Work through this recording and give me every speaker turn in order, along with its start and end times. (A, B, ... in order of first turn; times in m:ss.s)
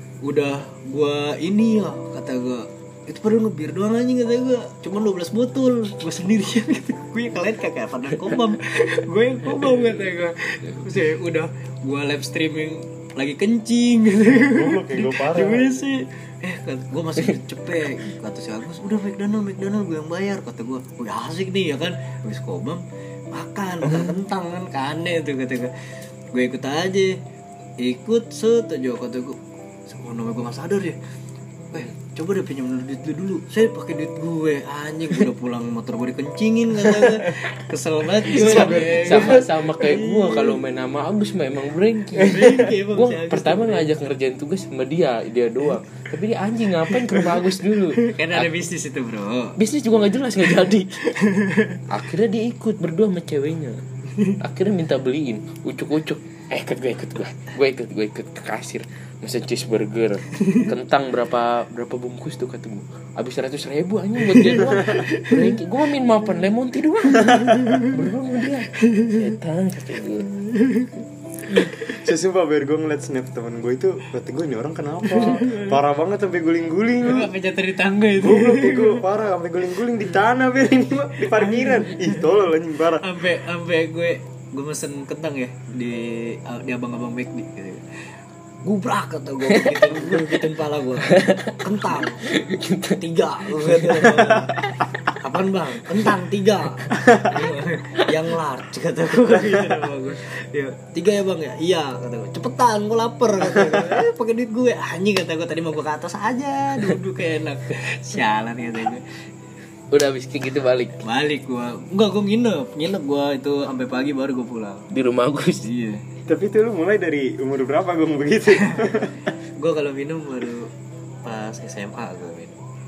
0:00.2-0:25.7 A
0:14.3-0:15.9 B
0:26.3-0:27.2 A
0:27.8-0:31.0 A
0:31.7-0:40.6 A
0:38.2-0:48.5 C
0:38.5-0:39.4 B
0:42.2-0:43.9 A
0:46.9-0:49.6 A
0:49.6-0:51.0 C
0:50.5-0:51.8 A
0:51.9-0:53.8 C
0:54.4-1:10.3 C
1:00.4-1:00.7 A
1:04.2-1:05.6 A
1:04.6-1:05.1 B
1:07.1-1:07.8 B
1:07.2-1:08.0 A
1:08.7-1:09.3 A
1:10.4-1:10.9 A
1:11.5-1:11.9 A
1:12.0-1:17.3 B
1:15.0-1:15.8 A
1:17.0-1:19.0 A
1:18.2-1:23.1 B
1:21.2-1:22.2 A
1:23.0-1:27.8 A
1:28.6-1:32.2 A
1:29.5-1:30.4 C
1:31.0-1:34.6 C
1:32.9-1:34.6 A
1:35.2-1:49.0 A
1:37.0-1:37.4 B
1:49.9-1:51.0 C
1:51.0-1:54.9 A
1:54.9-1:55.7 C
1:55.6-1:56.0 A
1:56.3-1:59.1 B
1:58.5-1:59.0 A
1:59.6-2:00.7 A
2:01.2-2:02.6 A